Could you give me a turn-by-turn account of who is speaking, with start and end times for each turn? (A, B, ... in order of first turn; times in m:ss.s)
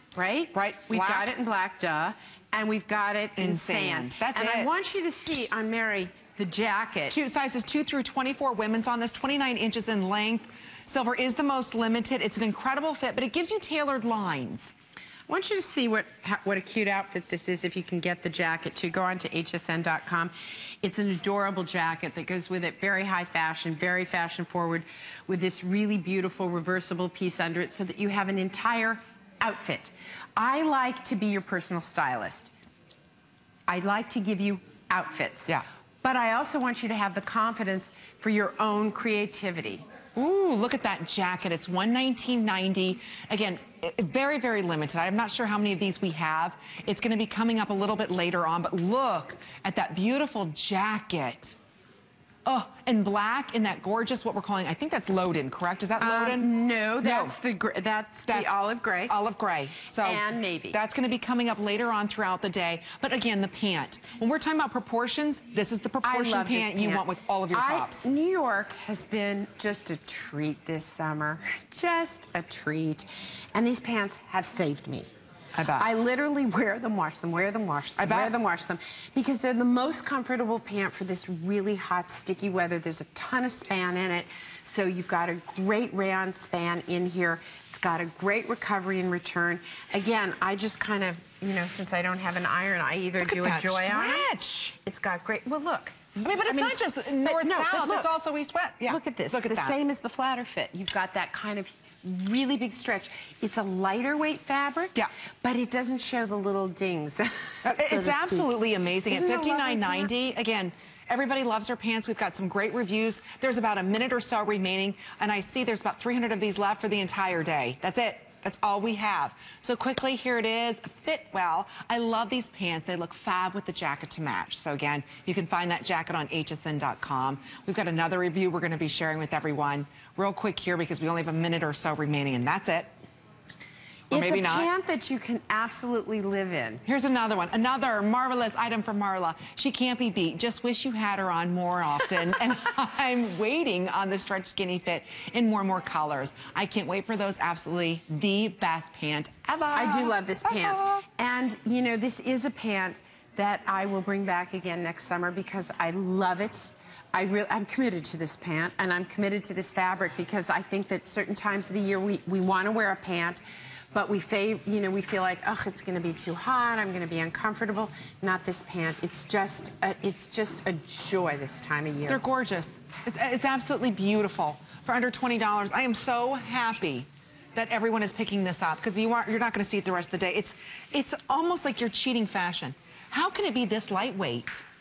0:00.1-0:07.2 A
0:00.5-0:01.3 B
0:03.4-0:04.7 B
0:07.1-0:14.7 B
0:15.3-0:32.5 A
0:33.7-0:39.8 A
0:40.1-0:51.6 B
0:52.4-0:56.5 B
0:56.0-0:59.1 A
0:57.0-0:57.4 B
0:58.3-1:08.0 B
1:00.0-1:00.8 A
1:06.0-1:15.1 A
1:15.6-1:15.9 B
1:15.7-1:38.1 A
1:18.0-1:18.3 B
1:33.2-1:34.8 B
1:36.2-1:39.8 B
1:38.9-1:50.1 A
1:47.6-2:12.9 B
2:14.1-2:16.8 A
2:14.1-2:14.7 B
2:16.8-2:31.0 B
2:29.7-2:52.2 A
2:52.1-3:04.6 B